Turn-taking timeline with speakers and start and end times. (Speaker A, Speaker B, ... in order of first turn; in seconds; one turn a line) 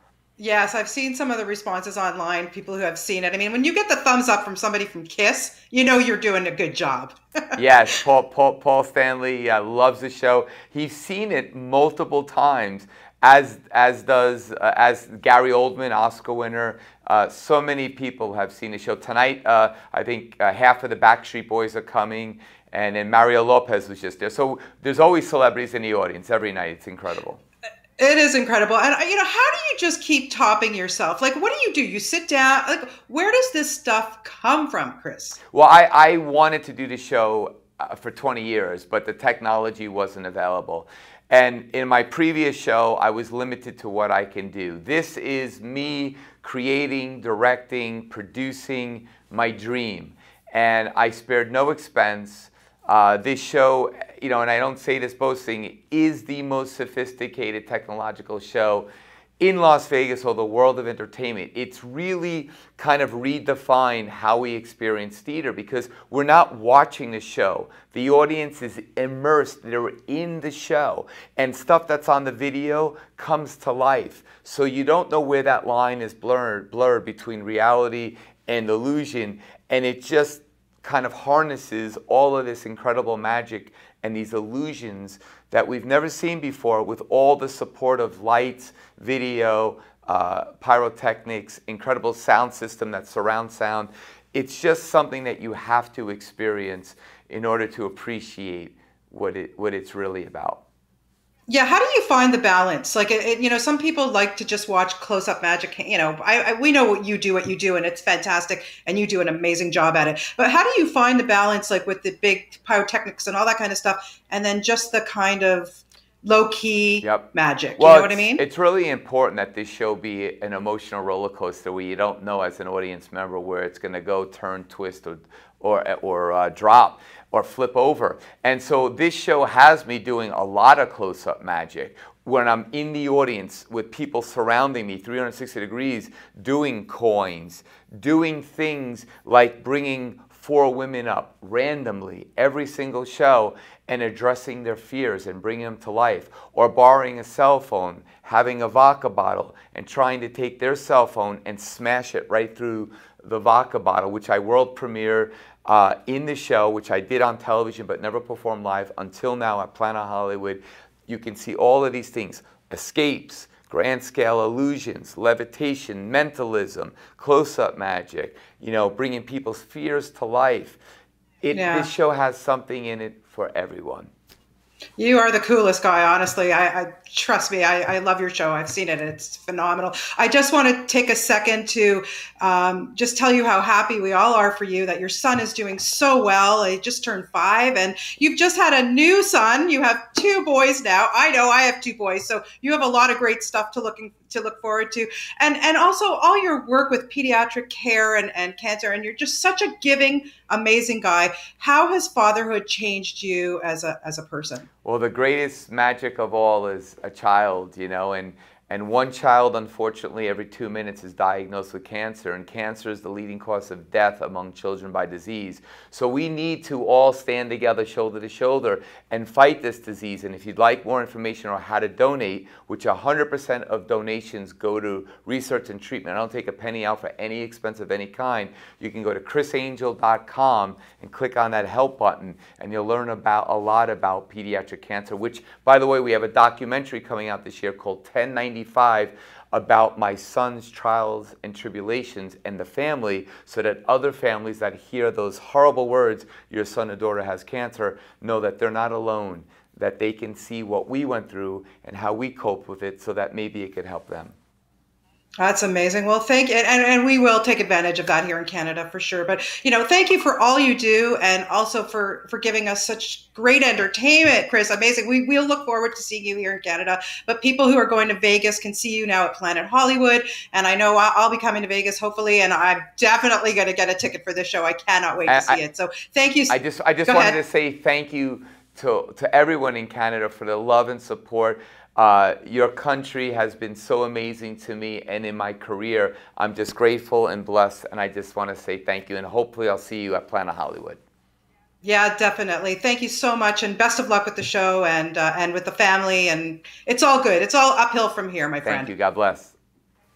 Speaker A: 0.4-7.6
Speaker B: 7.6-27.4
Speaker A: 28.0-35.4
Speaker B: 35.5-58.9
Speaker B: 59.4-100.6
Speaker A: 101.5-118.4
Speaker B: 117.0-170.8
Speaker B: 171.4-174.1
Speaker A: 171.5-171.9
Speaker A: 175.0-204.7
Speaker B: 204.8-254.3
Speaker A: 255.4-277.4
Speaker B: 275.3-275.6
Speaker B: 276.5-291.0
Speaker A: 291.8-298.9
Speaker B: 298.6-299.5